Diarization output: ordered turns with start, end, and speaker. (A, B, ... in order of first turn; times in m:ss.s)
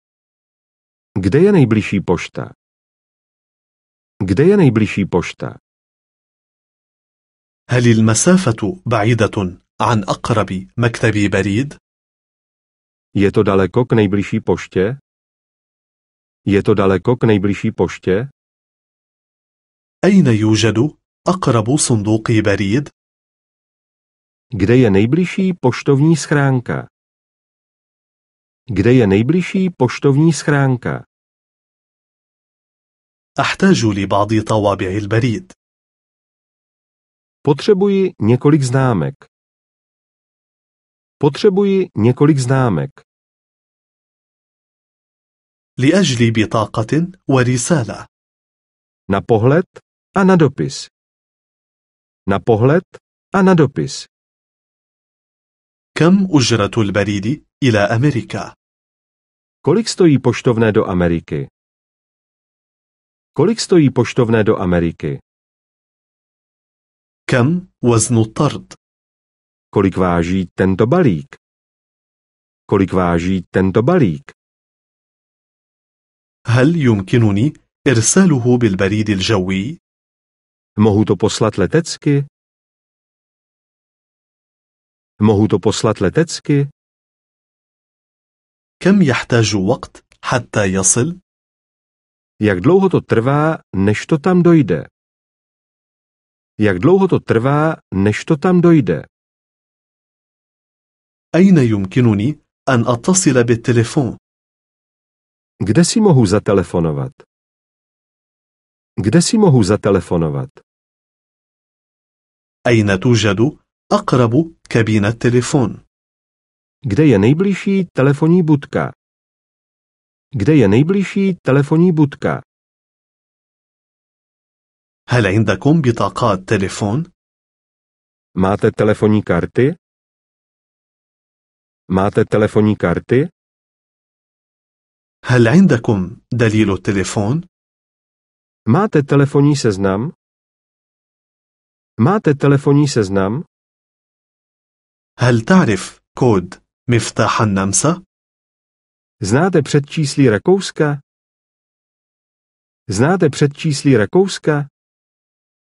0:01.2-0:02.5 A
0:04.2-0:05.6 A
0:07.7-0:11.8 B
0:13.2-0:15.0 A
0:16.5-0:18.3 A
0:20.0-0:22.9 B
0:24.6-0:26.9 A
0:28.7-0:31.0 A
0:33.4-0:35.6 B
0:37.4-0:39.3 A
0:41.2-0:43.0 A
0:45.8-0:48.1 B
0:49.1-0:50.9 A
0:52.3-0:54.1 A
0:56.0-0:58.5 B
0:59.6-1:01.5 A
1:03.3-1:05.2 A
1:07.3-1:08.8 B
1:09.7-1:11.4 A
1:12.7-1:14.3 A
1:16.5-1:19.8 B
1:20.8-1:22.3 A
1:25.2-1:26.7 A
1:28.8-1:31.2 B
1:32.4-1:34.9 A
1:36.6-1:39.0 A
1:41.3-1:44.2 B
1:45.6-1:47.2 A
1:49.0-1:50.6 A
1:52.7-1:55.8 B
1:56.9-1:58.9 A
2:00.4-2:02.4 A
2:05.1-2:07.1 B
2:08.4-2:09.8 A
2:11.9-2:13.3 A
2:15.3-2:17.4 B
2:18.7-2:20.1 A
2:22.0-2:23.4 A
2:25.2-2:28.0 B
2:29.2-2:31.0 A
2:32.9-2:34.7 A